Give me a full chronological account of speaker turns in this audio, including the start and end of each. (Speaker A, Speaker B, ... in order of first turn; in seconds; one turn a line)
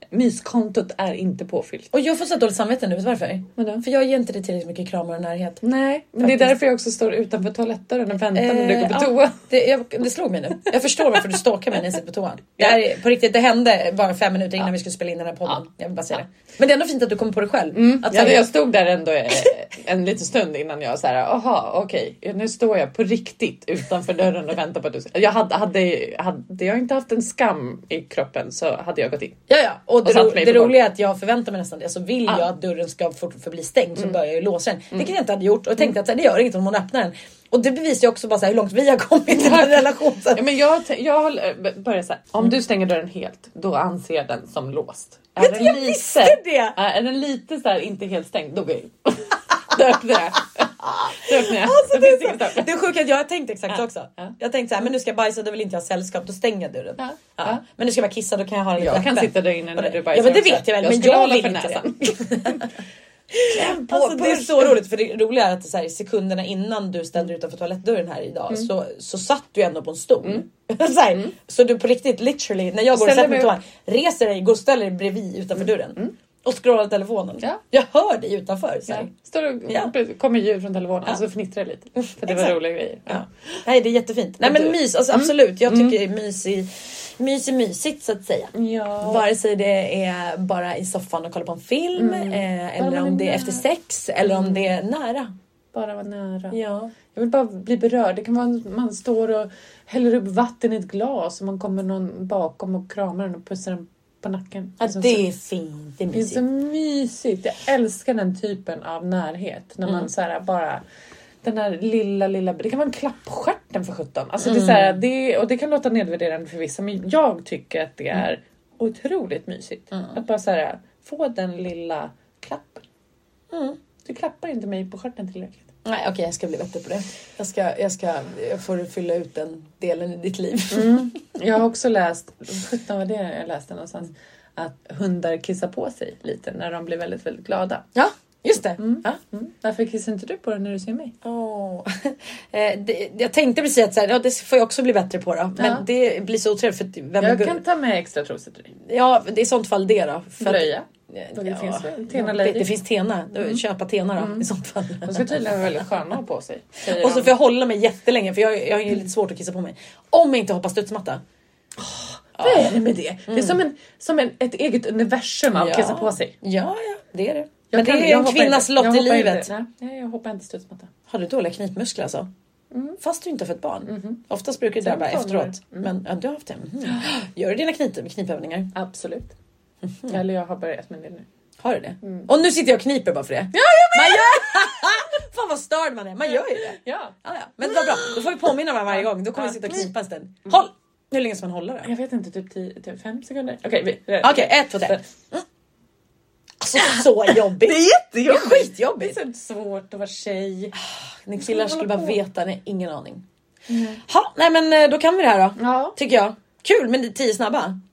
Speaker A: 0.1-1.9
Speaker B: 1.9-5.6
Speaker A: 3.6-3.8
Speaker A: 5.6-9.4
Speaker B: 6.2-6.5
Speaker B: 8.3-18.5
Speaker A: 11.0-11.4
Speaker A: 17.7-29.4
Speaker B: 29.5-40.4
Speaker A: 30.0-30.8
Speaker A: 39.3-52.7
Speaker B: 45.4-46.8
Speaker B: 50.8-62.7
Speaker A: 53.7-54.3
Speaker A: 57.0-57.6
Speaker A: 58.8-62.7
Speaker B: 63.3-79.1
Speaker A: 63.4-64.8
Speaker A: 72.9-73.5
Speaker A: 78.9-83.2
Speaker B: 82.0-82.5
Speaker B: 83.1-95.3
Speaker A: 84.4-86.0
Speaker A: 88.5-89.2
Speaker A: 92.0-93.6
Speaker A: 94.2-94.7
Speaker A: 95.7-96.6
Speaker B: 96.5-96.9
Speaker A: 97.1-105.3
Speaker B: 104.8-106.4
Speaker A: 106.1-110.8
Speaker A: 111.4-122.8
Speaker B: 114.4-115.0
Speaker B: 119.9-120.2
Speaker B: 123.5-123.8
Speaker A: 124.0-125.7
Speaker B: 125.8-131.2
Speaker A: 130.7-137.8
Speaker B: 137.9-139.1
Speaker A: 138.8-141.1
Speaker B: 141.2-147.6
Speaker A: 145.6-145.8
Speaker A: 147.2-148.7
Speaker B: 148.8-155.4
Speaker A: 150.4-152.7
Speaker A: 154.2-154.5
Speaker A: 155.0-157.3
Speaker B: 156.9-161.2
Speaker A: 161.8-166.3
Speaker B: 162.4-163.6
Speaker B: 165.5-169.5
Speaker A: 167.7-170.9
Speaker B: 171.1-172.3
Speaker A: 172.7-173.0
Speaker B: 173.0-178.7
Speaker A: 173.9-174.2
Speaker A: 174.8-175.9
Speaker A: 176.8-177.1
Speaker A: 178.7-179.3
Speaker A: 180.1-181.3
Speaker B: 181.6-191.9
Speaker A: 183.5-185.0
Speaker A: 186.3-188.3
Speaker A: 188.9-189.9
Speaker A: 191.8-195.0
Speaker B: 194.2-195.4
Speaker B: 196.6-199.2
Speaker A: 196.8-200.7
Speaker B: 200.8-203.2
Speaker A: 201.4-202.2
Speaker A: 203.7-204.0
Speaker B: 204.0-207.8
Speaker A: 205.6-206.0